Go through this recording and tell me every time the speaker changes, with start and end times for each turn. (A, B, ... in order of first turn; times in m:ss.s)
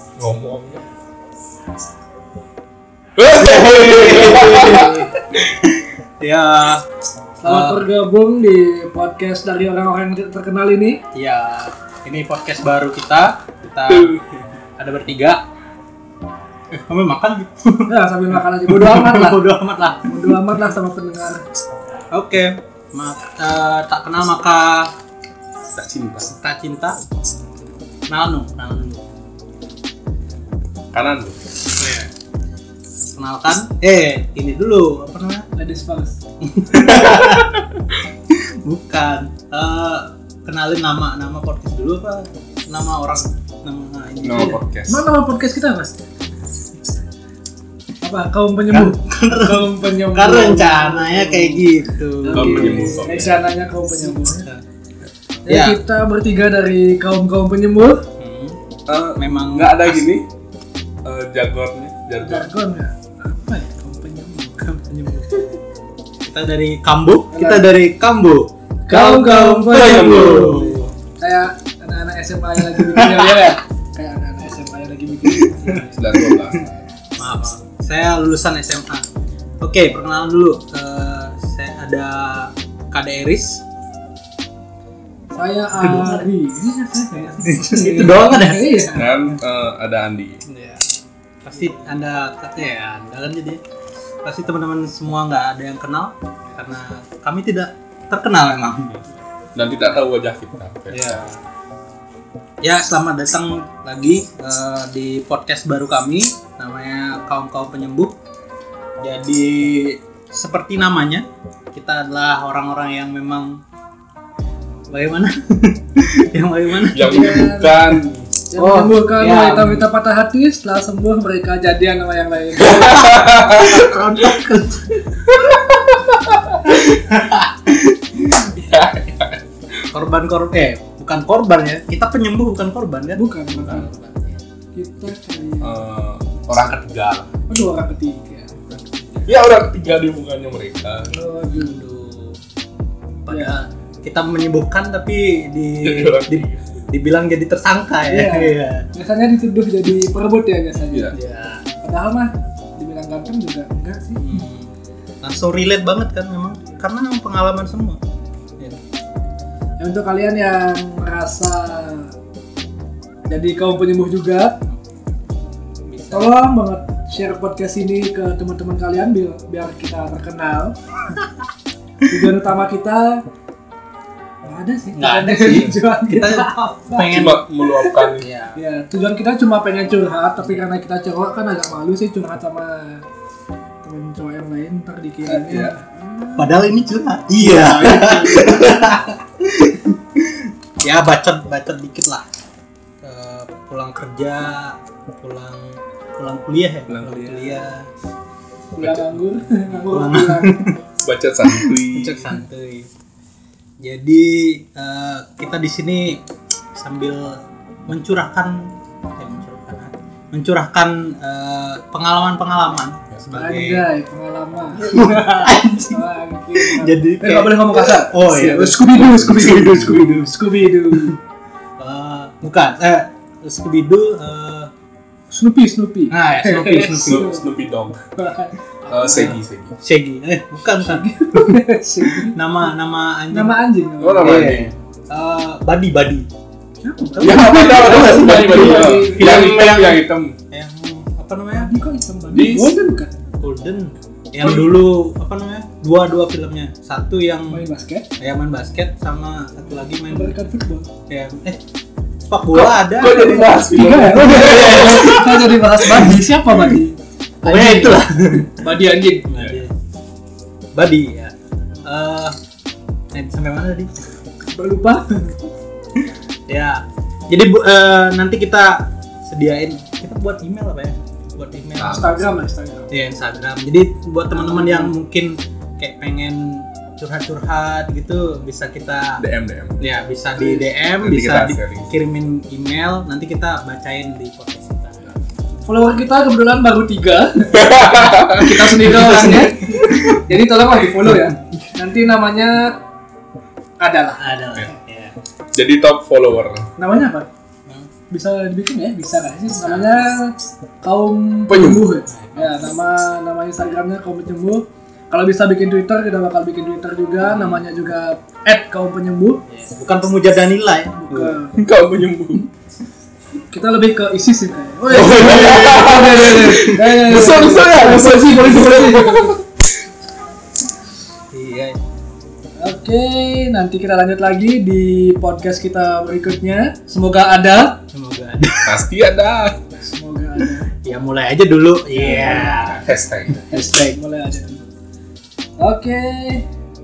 0:00.2-0:00.8 A
0:03.2-0:05.1 A
0:03.4-0:06.9 B
0:07.4-0:11.0 C
0:07.4-0:07.8 B
0:11.1-0:14.2 B
0:13.9-0:14.2 A
0:14.8-0:15.4 B
0:16.7-0:20.4 B
0:17.9-0:19.5 C
0:20.0-0:21.4 C
0:22.1-0:24.9 B
0:25.7-0:26.3 A
0:26.3-0:27.0 B
0:28.1-0:29.0 B
0:30.9-0:31.4 A
0:31.7-0:32.1 B
0:33.1-0:35.5 B
0:35.6-0:36.2 C
0:36.5-0:37.6 B
0:36.8-0:37.4 A
0:38.3-0:44.6 B
0:44.2-0:45.0 A
0:44.9-0:46.0 C
0:48.0-0:54.5 C
0:48.7-0:53.4 B
0:52.3-0:53.4 A
0:53.9-0:54.6 B
0:55.5-0:58.0 C
0:55.5-0:55.8 B
0:58.2-0:58.6 B
0:58.9-1:00.3 A
0:59.2-1:00.1 B
1:01.0-1:02.5 A
1:02.2-1:04.8 C
1:04.6-1:05.4 B
1:06.2-1:10.9 B
1:07.3-1:07.7 C
1:08.9-1:16.0 C
1:09.7-1:10.6 A
1:12.7-1:13.3 B
1:15.6-1:16.6 B
1:15.9-1:16.9 A
1:17.2-1:19.0 B
1:19.6-1:23.6 B
1:25.3-1:29.4 C
1:25.8-1:26.3 B
1:27.3-1:28.8 B
1:28.9-1:30.4 A
1:30.5-1:30.8 B
1:31.4-1:33.6 B
1:34.2-1:39.0 B
1:39.6-1:41.3 A
1:40.9-1:41.4 B
1:42.6-1:48.2 B
1:49.0-1:53.6 B
1:54.9-1:57.4 B
1:56.9-1:58.3 A
1:57.0-1:57.8 C
1:58.5-2:03.0 C
1:58.6-1:59.9 B
2:02.6-2:04.3 A
2:02.7-2:05.2 B
2:05.3-2:06.6 A
2:06.7-2:08.4 B
2:08.4-2:09.4 A
2:09.9-2:14.4 B
2:13.2-2:13.9 C
2:14.8-2:15.8 C
2:15.6-2:17.3 A
2:17.5-2:18.6 C
2:18.7-2:19.3 B
2:19.3-2:21.1 A
2:21.1-2:21.8 C
2:21.5-2:22.4 B
2:23.2-2:28.9 B
2:23.3-2:23.6 C
2:25.8-2:26.8 A
2:28.1-2:31.2 C
2:31.1-2:31.7 B
2:31.8-2:34.4 C
2:34.2-2:38.0 B
2:39.8-2:42.1 C
2:43.3-2:44.6 C
2:45.9-2:46.4 B
2:46.1-2:50.8 C
2:52.1-2:53.2 C
2:54.4-2:57.2 C
2:55.0-2:57.4 B
2:57.1-2:58.3 A
2:57.8-3:03.0 C
2:58.2-2:58.6 B
3:03.8-3:06.6 C
3:05.2-3:05.8 A
3:06.4-3:12.2 B
3:07.4-3:08.9 A
3:13.0-3:17.9 B
3:16.9-3:17.7 A
3:18.8-3:19.1 A
3:18.8-3:20.6 C
3:19.8-3:20.8 B
3:21.0-3:22.4 A
3:21.5-3:22.9 B
3:23.8-3:26.2 B
3:26.8-3:33.9 B
3:33.3-3:41.2 C
3:34.8-3:38.9 B
3:38.6-3:40.3 A
3:39.5-3:40.0 B
3:41.8-3:44.7 B
3:45.3-3:47.5 C
3:46.1-3:47.3 B
3:46.9-3:48.0 A
3:48.2-3:49.4 C
3:48.9-3:49.8 A
3:49.8-3:51.6 B
3:50.8-3:52.4 C
3:52.1-3:53.6 B
3:53.3-3:54.5 C
3:54.0-3:54.8 A
3:54.2-3:56.3 B
3:56.8-3:59.7 C
3:57.2-4:00.4 A
3:57.2-4:01.7 B
4:01.5-4:03.1 C
4:02.3-4:02.8 A
4:03.4-4:07.6 B
4:07.5-4:08.1 C
4:08.2-4:10.4 B
4:09.9-4:10.9 C
4:11.1-4:11.6 B
4:12.3-4:14.2 B
4:12.5-4:16.0 A
4:13.4-4:19.3 C
4:17.4-4:18.6 B
4:19.3-4:19.7 B
4:19.4-4:19.6 A
4:20.7-4:22.4 B
4:23.1-4:23.9 B
4:24.5-4:25.5 C
4:26.5-4:32.1 B
4:31.8-4:32.2 A
4:31.9-4:32.9 C
4:32.9-4:39.2 B
4:34.3-4:35.0 C
4:39.2-4:39.8 A
4:39.8-4:45.0 B
4:40.4-4:40.7 C
4:41.0-4:42.0 A
4:45.6-4:52.8 C
4:47.5-4:49.4 A
4:48.9-4:50.0 B
4:53.8-4:54.4 C
4:54.2-4:55.2 B
4:55.5-4:56.7 A
4:56.8-4:57.3 C
4:58.1-5:09.4 C
4:59.5-5:00.1 B
5:01.5-5:01.9 A
5:02.1-5:02.6 B
5:07.2-5:07.6 B
5:09.5-5:11.4 B
5:11.0-5:11.6 C
5:11.6-5:12.5 A
5:13.5-5:19.4 C
5:14.9-5:19.4 A
5:21.3-5:21.8 B
5:22.6-5:27.8 C
5:27.9-5:28.8 B
5:28.6-5:29.6 A
5:29.8-5:30.7 C
5:30.8-5:32.8 B
5:31.9-5:32.8 C
5:32.2-5:33.4 A
5:33.4-5:34.6 C
5:33.5-5:34.0 B
5:35.6-5:36.5 C